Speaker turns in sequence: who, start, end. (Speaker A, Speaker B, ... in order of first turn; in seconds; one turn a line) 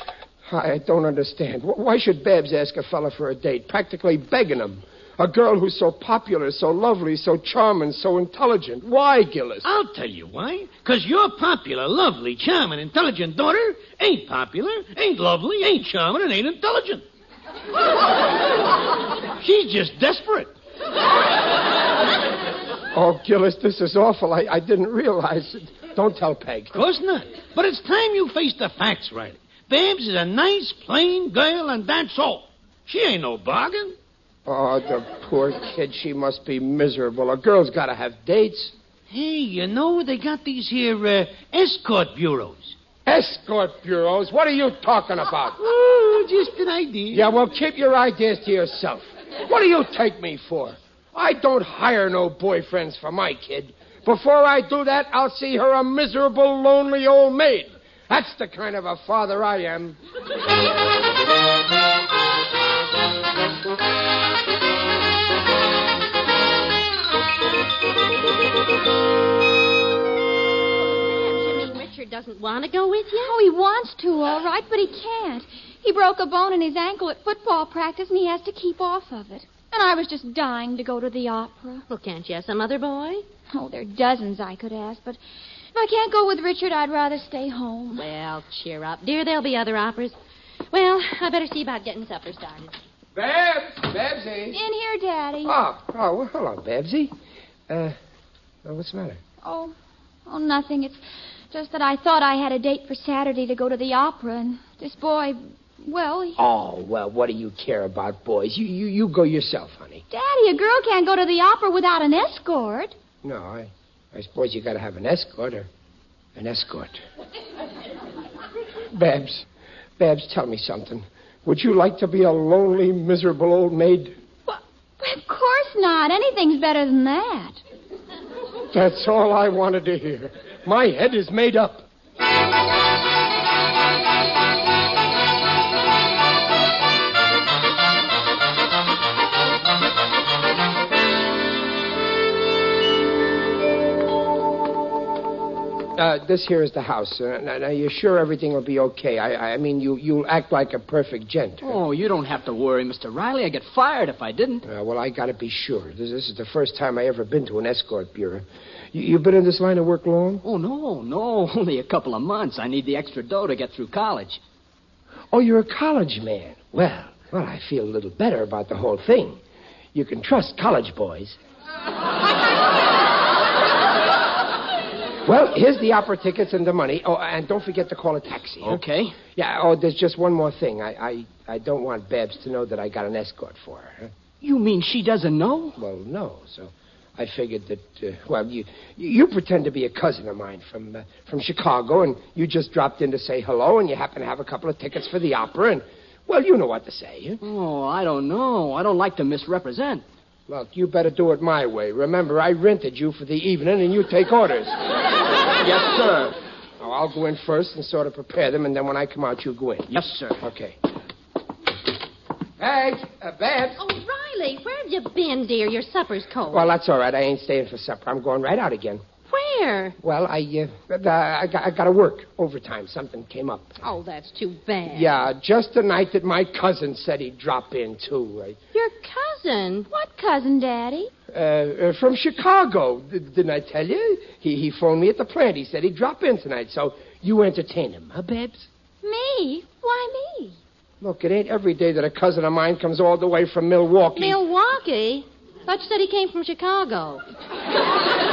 Speaker A: 0.5-9.7
Speaker B: 9.6-17.0
Speaker B: 19.4-20.5
Speaker A: 22.9-26.8
Speaker B: 26.7-34.0
Speaker A: 34.5-38.7
Speaker B: 39.1-42.8
Speaker A: 43.0-45.6
Speaker B: 45.6-47.3
Speaker A: 47.1-60.0
Speaker C: 70.8-73.4
Speaker D: 73.2-81.8
Speaker C: 81.9-83.2
Speaker D: 83.5-85.2
Speaker D: 85.7-88.0
Speaker C: 88.0-90.2
Speaker C: 90.7-92.8
Speaker A: 93.1-94.6
Speaker D: 94.5-95.5
Speaker A: 95.4-97.1
Speaker A: 97.7-98.0
Speaker A: 98.6-99.2
Speaker D: 99.4-99.7
Speaker D: 100.2-106.4
Speaker A: 106.4-110.0
Speaker D: 110.1-112.9
Speaker A: 113.2-115.7
Speaker A: 116.3-117.0
Speaker A: 118.9-119.5
Speaker A: 120.0-124.2
Speaker D: 124.5-127.6
Speaker A: 128.7-131.9
Speaker A: 145.9-151.8
Speaker E: 151.6-154.6
Speaker A: 154.6-160.4
Speaker E: 160.4-164.4
Speaker A: 165.3-169.4
Speaker A: 169.9-171.4
Speaker A: 175.2-178.8
Speaker E: 178.6-179.2
Speaker A: 179.3-184.1
Speaker E: 184.4-185.8
Speaker A: 185.8-197.4
Speaker E: 197.4-200.0
Speaker A: 200.5-204.8
Speaker E: 205.7-206.2
Speaker A: 205.7-210.8
Speaker E: 209.9-210.4
Speaker A: 212.6-213.8
Speaker C: 213.8-216.7
Speaker A: 216.5-219.0
Speaker C: 219.3-220.0
Speaker A: 220.0-223.8
Speaker C: 223.8-225.1
Speaker A: 224.9-228.6
Speaker C: 228.7-229.9
Speaker D: 229.9-231.1
Speaker A: 231.3-238.7
Speaker D: 239.0-240.6
Speaker A: 241.0-244.4
Speaker C: 244.2-247.2